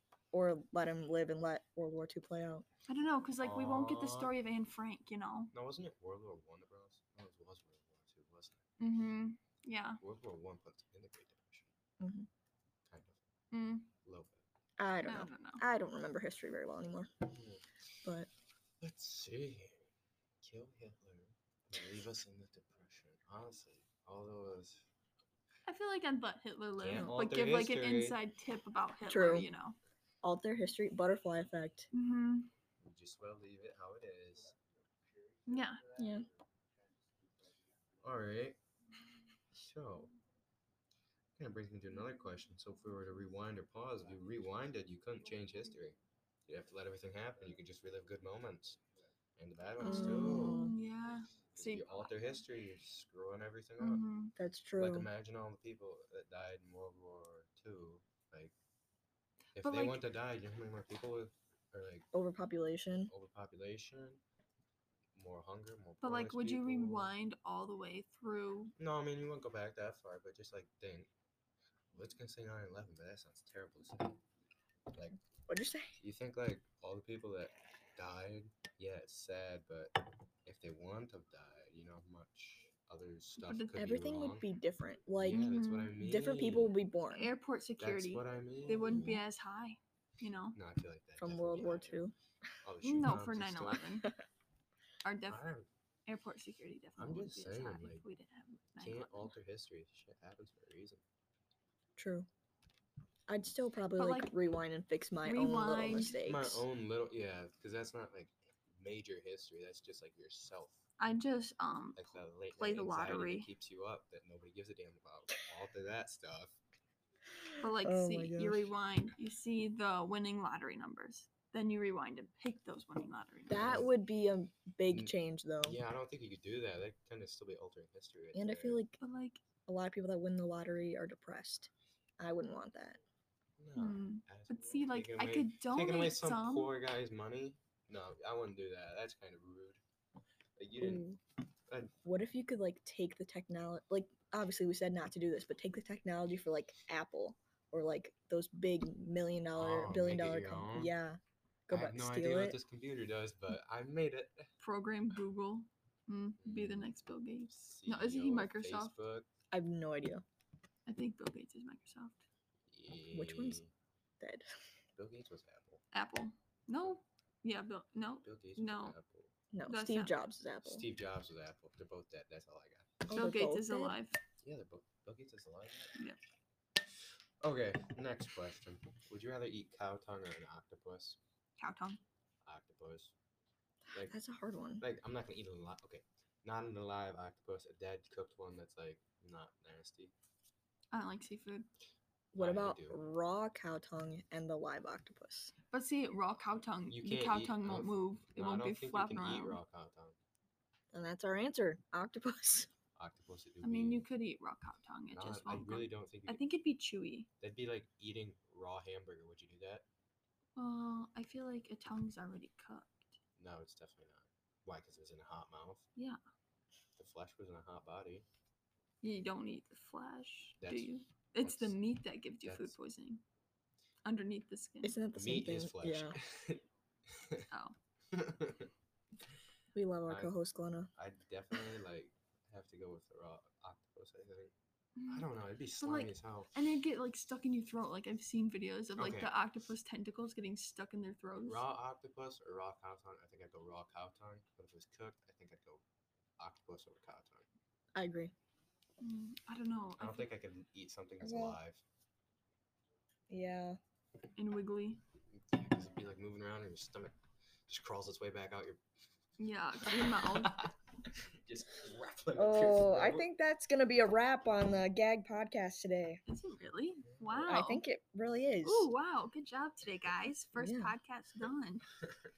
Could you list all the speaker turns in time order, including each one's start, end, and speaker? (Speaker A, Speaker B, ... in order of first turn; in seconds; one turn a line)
Speaker A: 0.3-2.6
Speaker B: 2.9-5.5
Speaker C: 3.4-4.3
Speaker C: 5.5-8.6
Speaker B: 8.8-10.0
Speaker C: 10.0-11.7
Speaker A: 12.0-12.3
Speaker C: 12.9-13.2
Speaker B: 13.5-13.9
Speaker C: 14.0-14.4
Speaker A: 14.8-17.1
Speaker B: 15.0-15.6
Speaker C: 17.2-17.6
Speaker A: 18.0-18.3
Speaker C: 18.8-19.8
Speaker C: 20.4-24.8
Speaker B: 25.6-29.8
Speaker C: 26.8-28.2
Speaker A: 29.0-29.5
Speaker A: 30.2-31.9
Speaker B: 31.9-32.5
Speaker C: 32.8-34.6
Speaker B: 35.5-35.8
Speaker A: 35.9-36.3
Speaker C: 38.0-38.6
Speaker C: 39.5-40.1
Speaker C: 41.4-48.8
Speaker C: 49.4-50.6
Speaker A: 49.8-50.8
Speaker B: 49.8-52.2
Speaker C: 51.5-54.0
Speaker B: 53.8-54.3
Speaker A: 54.4-55.1
Speaker C: 54.8-58.5
Speaker C: 59.5-62.1
Speaker B: 59.6-60.0
Speaker A: 62.1-63.1
Speaker C: 63.1-64.2
Speaker C: 65.1-67.1
Speaker B: 66.0-68.7
Speaker C: 68.8-71.1
Speaker C: 71.9-74.2
Speaker C: 74.9-75.2
Speaker A: 75.5-76.0
Speaker C: 76.0-84.5
Speaker B: 83.4-83.9
Speaker A: 83.7-85.5
Speaker C: 85.2-86.7
Speaker B: 85.2-86.0
Speaker A: 86.0-87.3
Speaker B: 87.1-90.6
Speaker C: 87.8-89.2
Speaker C: 90.5-92.0
Speaker A: 91.2-92.2
Speaker C: 92.6-93.8
Speaker B: 92.8-94.1
Speaker B: 95.0-95.4
Speaker C: 95.2-95.7
Speaker B: 96.1-99.3
Speaker C: 97.0-98.0
Speaker C: 98.8-101.0
Speaker A: 102.0-102.3
Speaker A: 103.3-106.6
Speaker B: 104.0-104.3
Speaker B: 105.2-106.2
Speaker C: 106.2-110.8
Speaker B: 111.0-113.5
Speaker C: 112.0-116.6
Speaker B: 117.6-123.7
Speaker A: 117.6-118.7
Speaker A: 123.5-125.8
Speaker C: 123.5-123.9
Speaker C: 124.9-128.8
Speaker A: 128.3-129.0
Speaker B: 129.0-129.4
Speaker A: 129.7-133.0
Speaker C: 133.6-139.8
Speaker B: 133.8-136.7
Speaker C: 140.6-141.1
Speaker A: 140.8-141.2
Speaker A: 142.0-152.6
Speaker C: 149.5-150.9
Speaker C: 151.7-154.5
Speaker B: 154.6-158.9
Speaker C: 156.4-156.9
Speaker C: 157.5-159.3
Speaker A: 159.5-160.2
Speaker B: 160.8-162.2
Speaker C: 162.7-163.7
Speaker A: 163.1-163.6
Speaker A: 164.2-164.4
Speaker C: 164.9-165.8
Speaker B: 165.9-168.9
Speaker C: 168.2-169.3
Speaker A: 169.5-170.8
Speaker B: 169.7-170.2
Speaker C: 170.6-173.1
Speaker A: 173.0-173.9
Speaker B: 173.1-174.2
Speaker C: 174.4-176.0
Speaker C: 177.4-181.2
Speaker B: 181.6-182.0
Speaker C: 182.4-183.1
Speaker A: 183.9-184.8
Speaker C: 184.8-190.1
Speaker B: 190.9-191.7
Speaker A: 192.3-195.5
Speaker C: 192.3-193.0
Speaker B: 195.7-199.6
Speaker C: 196.9-200.2
Speaker A: 200.9-202.7
Speaker C: 203.0-204.1
Speaker B: 203.6-207.3
Speaker C: 205.1-206.4
Speaker C: 207.4-209.8
Speaker B: 210.6-213.1
Speaker C: 213.4-215.8
Speaker C: 217.0-218.2
Speaker B: 219.0-223.2
Speaker C: 220.6-220.9
Speaker C: 221.4-221.8
Speaker C: 222.4-222.8
Speaker B: 224.0-225.0
Speaker A: 224.8-226.1
Speaker C: 225.1-227.5
Speaker B: 227.5-227.8
Speaker C: 228.1-228.7
Speaker A: 229.7-230.9
Speaker C: 230.1-230.3
Speaker C: 230.9-234.5
Speaker B: 235.0-235.3
Speaker C: 235.1-236.5
Speaker B: 235.8-241.6
Speaker C: 238.9-239.3
Speaker C: 241.4-245.8
Speaker C: 246.4-247.5
Speaker A: 247.9-248.3
Speaker B: 249.0-250.3
Speaker C: 250.0-251.8
Speaker A: 251.2-251.6
Speaker A: 253.3-253.8
Speaker B: 254.4-255.0
Speaker C: 255.3-257.1
Speaker C: 257.7-258.8
Speaker B: 259.4-260.6
Speaker C: 259.8-263.3
Speaker A: 262.3-266.2
Speaker B: 266.3-267.8
Speaker C: 267.1-267.5
Speaker A: 267.4-268.9
Speaker B: 268.6-271.9
Speaker A: 270.6-270.9